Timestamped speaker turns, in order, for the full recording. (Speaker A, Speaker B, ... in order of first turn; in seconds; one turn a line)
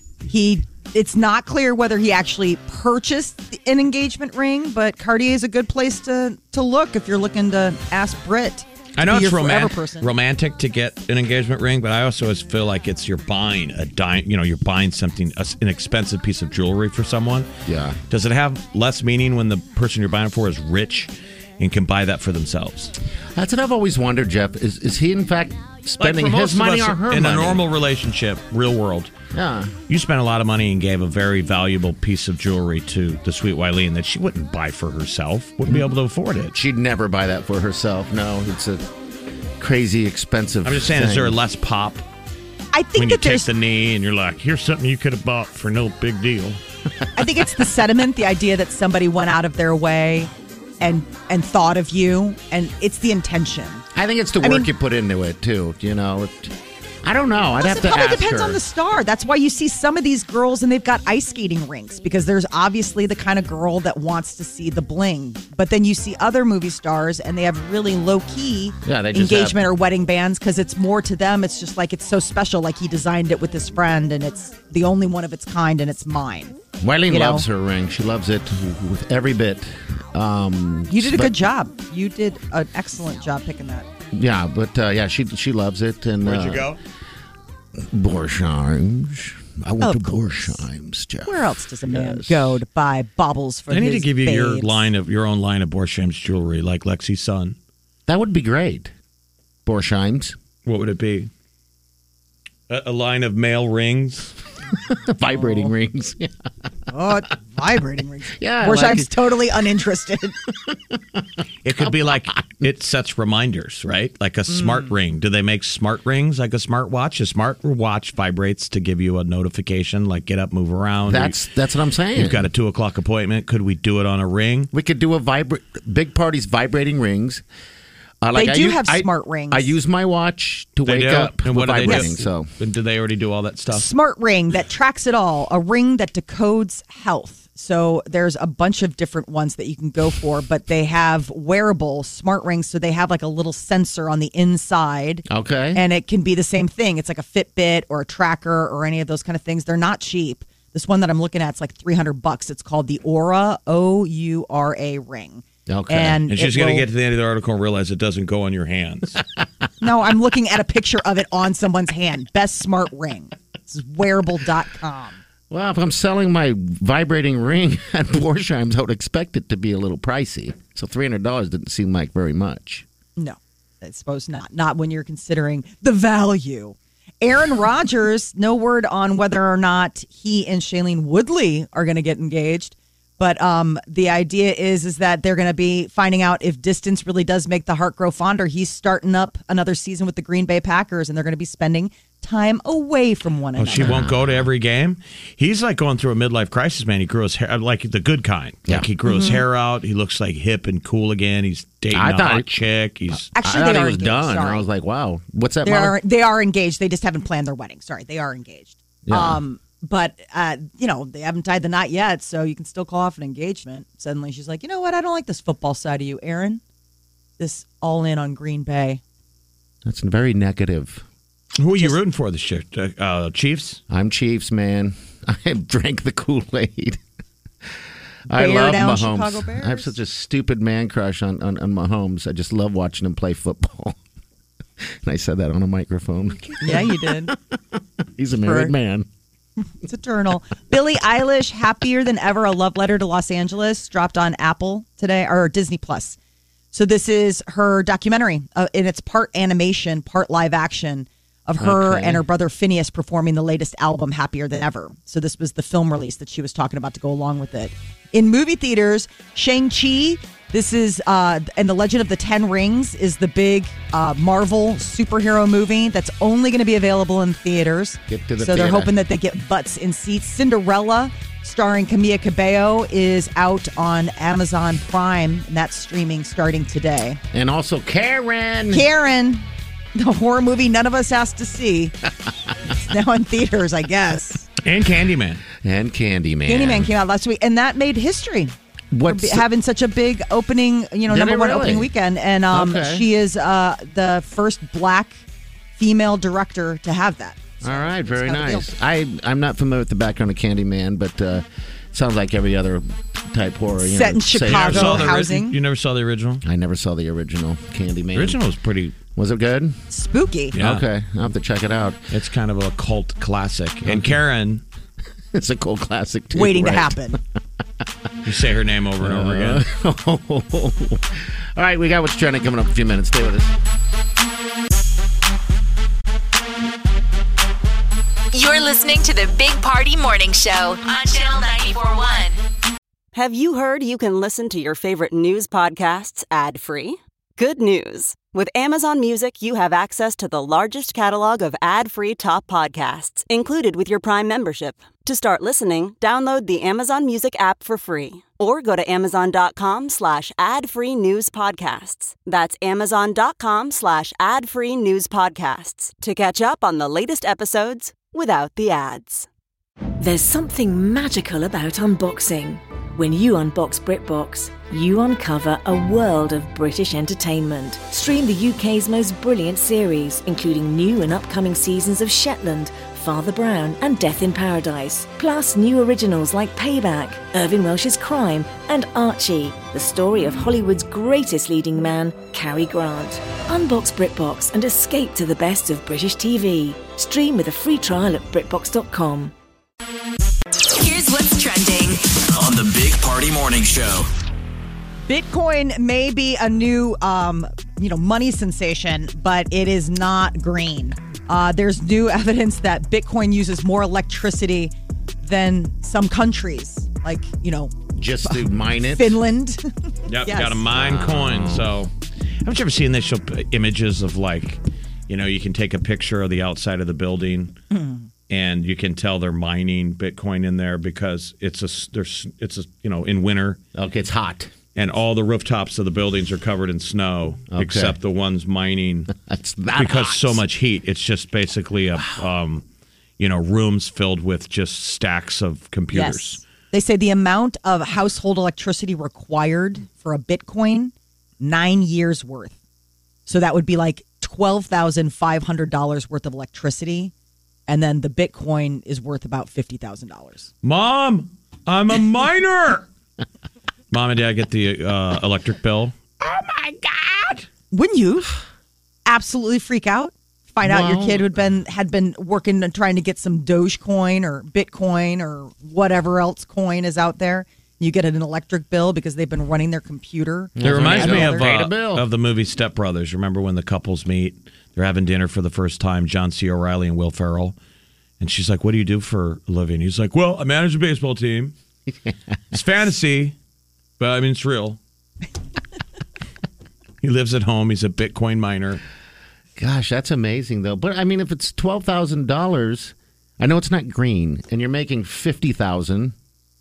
Speaker A: 0.3-10.1
Speaker B: 9.0-17.5
Speaker C: 17.6-18.0
Speaker B: 18.1-22.9
Speaker C: 23.4-27.6
Speaker B: 26.0-29.1
Speaker C: 29.3-29.8
Speaker B: 29.9-36.5
Speaker C: 36.5-38.9
Speaker C: 39.6-41.4
Speaker B: 40.6-42.0
Speaker A: 42.7-43.5
Speaker B: 43.0-46.6
Speaker A: 47.1-53.8
Speaker C: 53.9-58.6
Speaker A: 54.4-54.7
Speaker A: 57.6-76.6
Speaker C: 68.8-69.7
Speaker C: 76.8-81.4
Speaker A: 77.1-77.5
Speaker A: 80.9-83.9
Speaker C: 84.1-86.7
Speaker B: 86.2-86.8
Speaker C: 87.8-92.6
Speaker A: 89.8-90.6
Speaker A: 91.2-94.9
Speaker B: 93.7-97.5
Speaker C: 98.1-98.9
Speaker C: 99.6-100.4
Speaker B: 100.7-101.3
Speaker B: 102.7-104.3
Speaker C: 104.8-106.3
Speaker A: 105.3-105.7
Speaker A: 106.9-110.4
Speaker C: 108.4-109.1
Speaker C: 110.7-112.7
Speaker B: 111.6-121.4
Speaker A: 114.5-114.9
Speaker C: 121.0-122.5
Speaker B: 122.1-124.7
Speaker C: 124.7-127.4
Speaker C: 128.2-132.5
Speaker A: 128.3-129.7
Speaker B: 130.8-133.9
Speaker A: 133.7-156.8
Speaker C: 145.3-145.8
Speaker C: 155.7-156.2
Speaker B: 156.3-159.2
Speaker A: 159.8-165.2
Speaker C: 165.5-172.9
Speaker A: 173.2-193.9
Speaker B: 193.6-203.3
Speaker C: 193.7-194.5
Speaker A: 199.1-199.4
Speaker C: 201.9-202.5
Speaker C: 203.3-206.0
Speaker A: 203.3-204.6
Speaker A: 205.6-216.6
Speaker C: 209.1-209.4
Speaker A: 217.4-219.0
Speaker C: 219.8-221.0
Speaker B: 221.6-223.8
Speaker C: 223.9-227.0
Speaker C: 228.3-234.0
Speaker A: 228.3-229.9
Speaker C: 234.8-237.4
Speaker A: 236.6-237.3
Speaker C: 238.0-239.1
Speaker A: 238.4-238.7
Speaker A: 239.8-246.2
Speaker A: 246.7-277.2
Speaker C: 251.6-252.2
Speaker C: 268.1-268.9
Speaker C: 277.3-278.9
Speaker A: 278.7-281.9
Speaker A: 282.8-284.5
Speaker B: 284.6-285.4
Speaker C: 285.6-286.9
Speaker A: 286.5-288.5
Speaker C: 288.9-289.4
Speaker A: 289.1-295.2
Speaker C: 291.1-291.9
Speaker C: 292.5-293.1
Speaker A: 295.8-298.7
Speaker C: 297.6-305.2
Speaker A: 303.8-305.6
Speaker B: 304.4-306.4
Speaker C: 306.4-308.4
Speaker B: 308.1-309.0
Speaker C: 309.1-309.8
Speaker A: 309.9-310.6
Speaker B: 310.5-310.9
Speaker C: 310.5-312.1
Speaker B: 312.1-314.6
Speaker C: 313.9-314.2
Speaker C: 315.3-317.0
Speaker A: 316.3-317.2
Speaker B: 318.2-319.6
Speaker C: 319.0-323.5
Speaker D: 328.3-332.4
Speaker E: 333.1-359.3
Speaker F: 360.0-389.3
Speaker D: 390.8-392.0
Speaker G: 392.1-394.1
Speaker A: 395.1-409.6
Speaker C: 407.9-409.2
Speaker B: 410.1-411.9
Speaker A: 410.2-410.6
Speaker C: 410.7-411.7
Speaker B: 412.4-417.6
Speaker A: 417.7-418.1
Speaker B: 418.3-423.6
Speaker C: 423.7-424.5
Speaker B: 424.7-429.1
Speaker C: 427.5-428.0
Speaker C: 429.1-430.4
Speaker B: 429.8-432.6
Speaker B: 433.2-436.4
Speaker A: 435.9-442.6
Speaker A: 443.3-447.1
Speaker A: 447.7-450.5
Speaker B: 450.6-452.9
Speaker B: 453.9-457.4
Speaker A: 457.7-458.3
Speaker A: 459.1-471.5
Speaker C: 460.6-461.3
Speaker C: 470.6-472.1
Speaker B: 470.6-477.6
Speaker B: 478.2-481.5
Speaker C: 481.9-482.6
Speaker B: 482.5-483.4
Speaker B: 484.0-484.8
Speaker B: 487.0-488.8
Speaker C: 489.6-496.1